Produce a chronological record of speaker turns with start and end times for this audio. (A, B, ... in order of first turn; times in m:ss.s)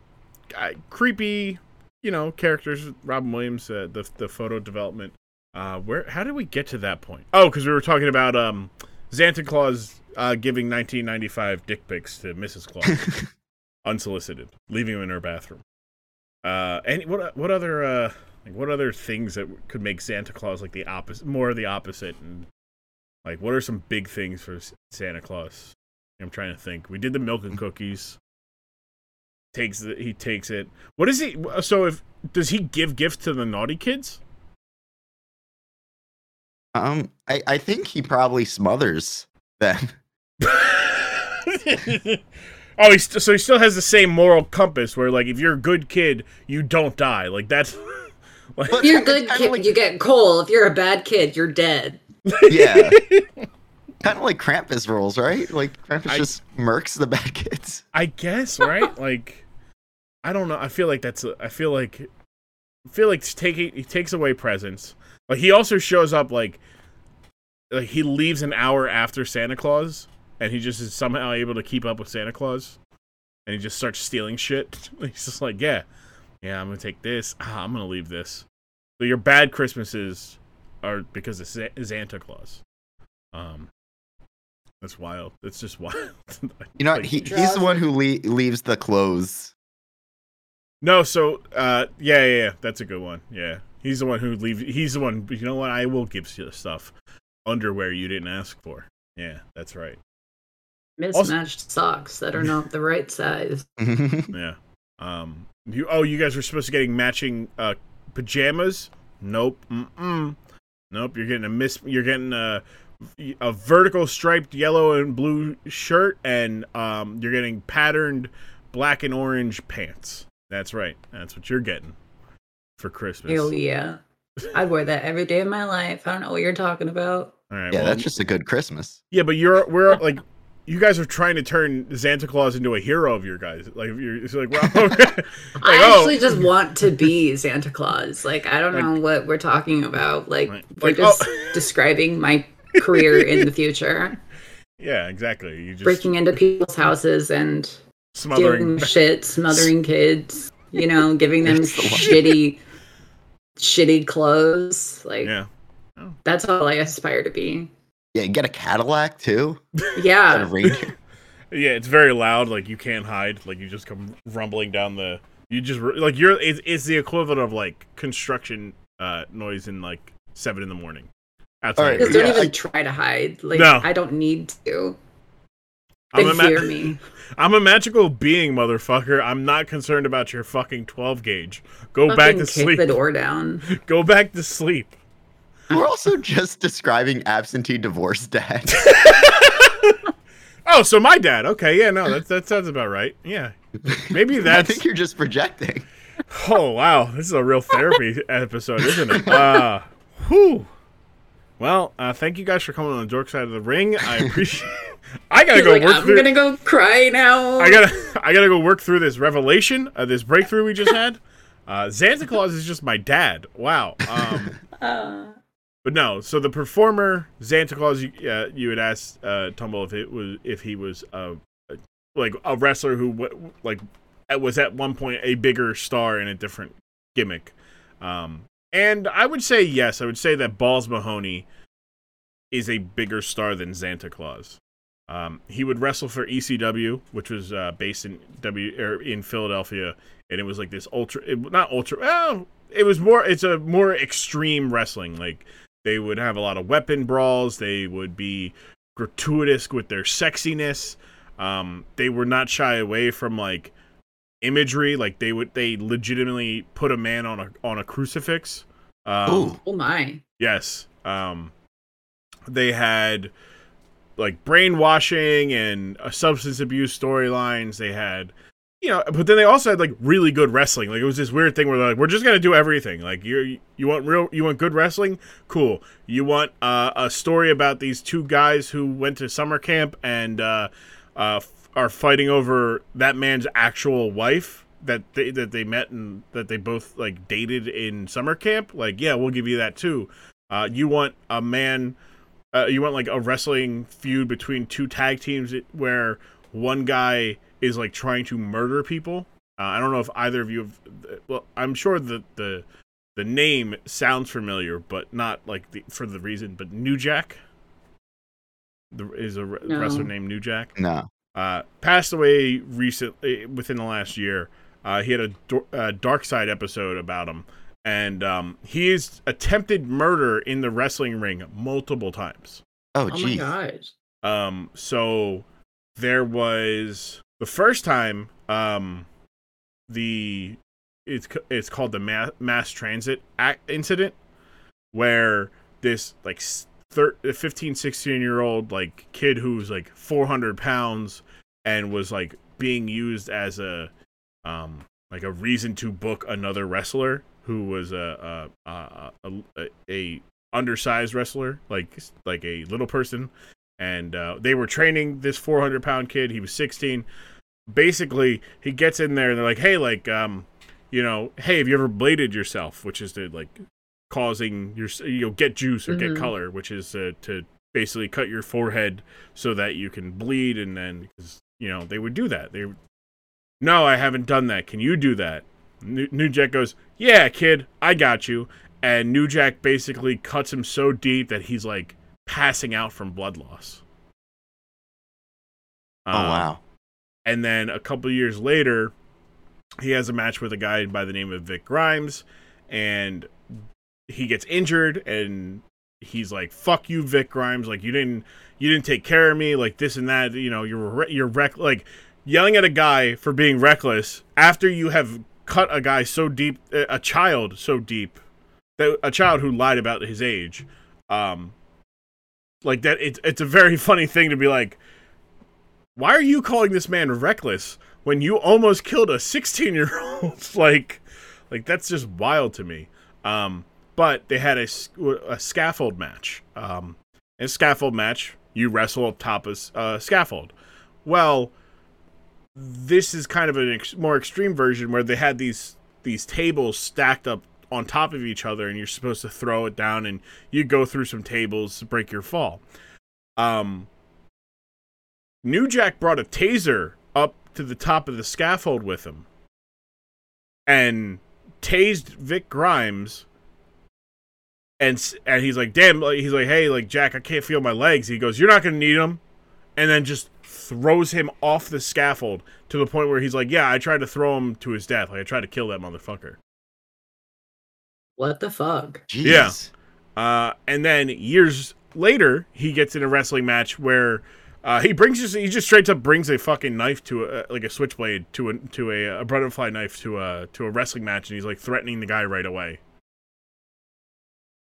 0:00.5-0:13.1 A
0:13.8-0:15.6 A
0:16.4-0:22.5 A
0:23.2-0:28.2 A
0:29.5-0:34.2 A
0:36.7-0:40.0 B
0:40.4-0:42.2 A
0:42.8-0:49.0 A
0:48.7-0:49.7 B
0:48.8-0:52.0 C
0:52.3-0:53.2 A
0:52.5-0:53.0 B
0:54.0-0:57.8 B
0:57.9-0:59.4 A
1:00.2-1:02.1 A
1:02.9-1:06.6 A
1:07.7-1:12.8 A
1:13.5-1:15.8 A
1:16.4-1:18.4 A
1:19.0-1:22.6 A
1:23.3-1:23.7 A
1:24.8-1:27.3 A
1:26.8-1:29.5 B
1:27.2-1:27.8 C
1:30.8-1:36.9 A
1:37.4-1:40.0 A
1:41.0-1:43.7 C
1:43.8-1:44.3 B
1:44.3-1:50.4 A
1:50.9-2:01.9 A
2:02.8-2:03.5 A
2:03.3-2:04.0 C
2:04.5-2:07.3 C
2:07.5-2:08.0 A
2:07.7-2:09.0 B
2:09.1-2:16.4 A
2:15.6-2:24.2 C
2:20.5-2:21.7 A
2:22.9-2:23.5 A
2:24.8-2:26.1 A
2:25.8-2:27.8 C
2:28.1-2:29.0 A
2:28.3-2:32.6 C
2:31.4-2:32.1 B
2:32.0-2:32.3 A
2:33.6-2:35.3 C
2:35.2-2:36.2 A
2:36.2-2:37.7 C
2:38.1-2:39.6 B
2:39.9-2:40.6 C
2:40.3-2:40.9 B
2:41.5-2:51.1 A
2:51.6-2:52.4 A
2:51.8-2:52.5 B
2:52.0-2:55.0 C
2:53.5-2:53.9 A
2:56.1-3:02.9 A
2:56.2-2:57.0 C
3:02.1-3:03.6 C
3:03.7-3:04.9 A
3:05.7-3:09.1 B
3:08.7-3:10.0 A
3:10.6-3:14.8 A
3:13.9-3:15.8 B
3:16.3-3:20.7 A
3:21.6-3:26.3 A
3:25.5-3:27.8 C
3:27.6-3:34.5 A
3:34.8-3:35.3 C
3:35.8-3:51.4 A
3:52.5-4:13.7 A
4:14.4-4:19.6 A
4:19.3-4:19.6 B
4:19.6-4:20.2 C
4:20.4-4:21.5 A
4:22.5-4:23.3 A
4:24.2-4:52.0 A
4:52.5-5:02.6 A
5:03.2-5:07.4 A
5:08.9-5:10.7 A
5:09.6-5:10.1 C
5:10.8-5:11.1 B
5:11.3-5:22.6 A
5:22.9-5:23.5 B
5:23.1-5:23.9 C
5:24.2-5:25.4 A
5:26.0-5:29.1 A
5:29.9-5:34.1 A
5:34.9-5:43.9 A
5:44.4-5:57.0 A
5:57.7-6:12.8 A
6:05.9-6:06.3 C
6:13.6-6:23.8 A
6:26.0-6:26.5 A
6:26.1-6:26.6 B
6:27.2-6:28.9 A
6:29.8-6:33.3 A
6:34.1-6:48.2 A
6:48.8-6:51.5 A
6:52.6-6:54.8 A
6:56.0-7:10.5 A
7:11.0-7:11.5 A
7:12.5-7:22.6 A
7:23.4-7:23.9 A
7:25.4-7:29.2 A
7:30.7-7:33.2 A
7:34.8-7:39.2 A
7:39.8-7:46.4 A
7:48.2-7:49.0 C
7:49.1-7:49.7 B
7:49.2-7:49.6 A
7:50.2-8:02.8 A